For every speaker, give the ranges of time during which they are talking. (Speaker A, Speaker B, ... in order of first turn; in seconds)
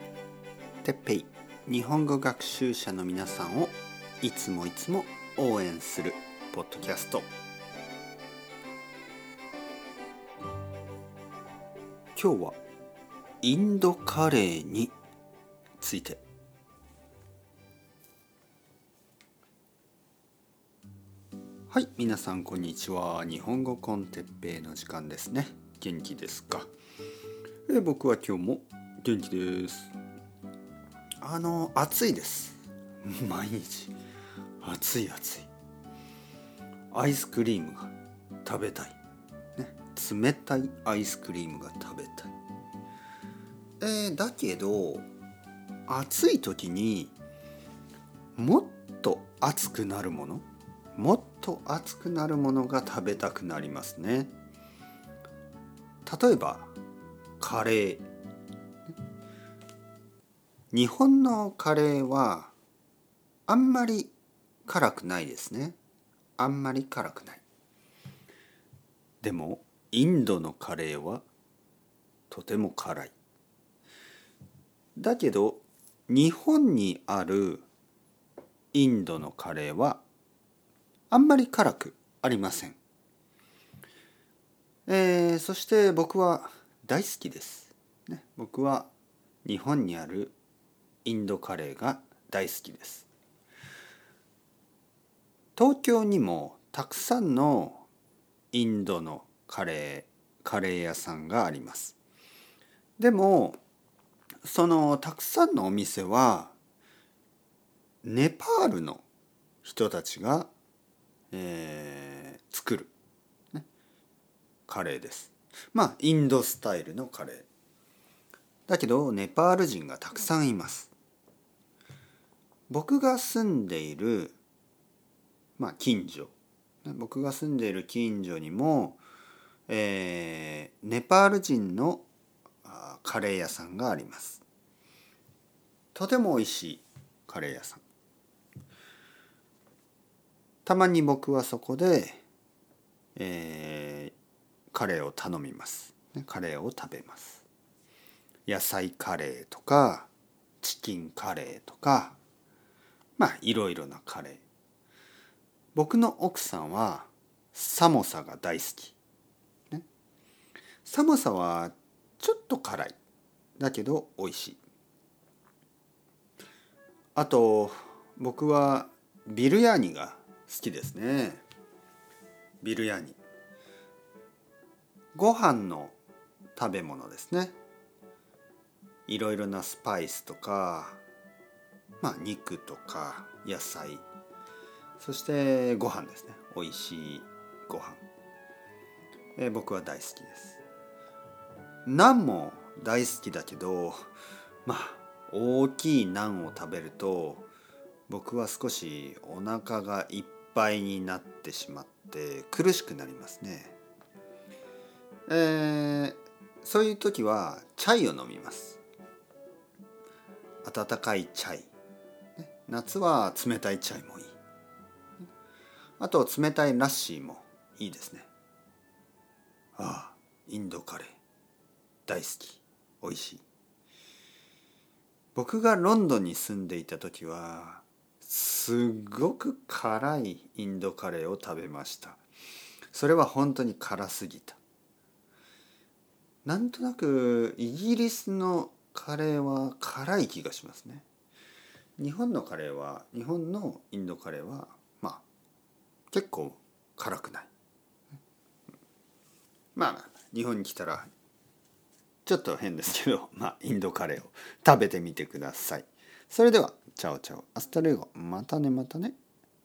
Speaker A: 0.8-7.3, 12.1-12.6, 13.4-14.9, 15.8-16.2, 21.7-26.7, 27.7-29.9, 31.2-34.0, 34.6-35.5, 36.9-37.9, 38.5-39.0, 39.6-42.3, 43.8-45.1, 45.9-47.1, 48.4-54.3, 56.0-56.7, 57.4-58.0, 60.7-62.5, 63.5-64.1, 64.6-65.8, 66.4-67.4, 69.2-71.2, 72.3-73.1, 75.0-77.6, 78.7-80.0, 81.1-82.8, 84.9-88.9, 89.4-90.3, 91.0-93.1, 95.5-97.9, 98.5-102.0, 103.0-103.6, 104.4-106.5, 108.0-109.0, 109.6-110.5, 111.3-112.9, 114.7-117.5, 118.7-120.9, 122.7-124.4, 125.6-129.0, 129.7-132.1, 132.6-134.4, 135.9-137.8, 140.7-142.2, 143.2-144.2, 144.7-147.4, 148.5-150.1, 150.6-152.2, 153.2-154.4, 155.8-159.0, 160.8-163.0, 163.6-164.6, 167.2-171.4, 172.6-173.2, 175.1-176.0, 176.6-177.6, 179.1-181.0, 182.0-184.0, 185.0-188.0, 189.4-190.6, 191.8-194.1, 194.7-197.5, 198.1-203.8, 205.3-208.8, 210.6-211.7, 212.4-214.4, 216.0-218.3, 219.8-221.2, 222.1-223.4, 225.3-232.2, 232.9-234.6, 236.4-241.1, 242.0-245.2, 246.1-247.5, 249.8-251.1, 252.3-259.2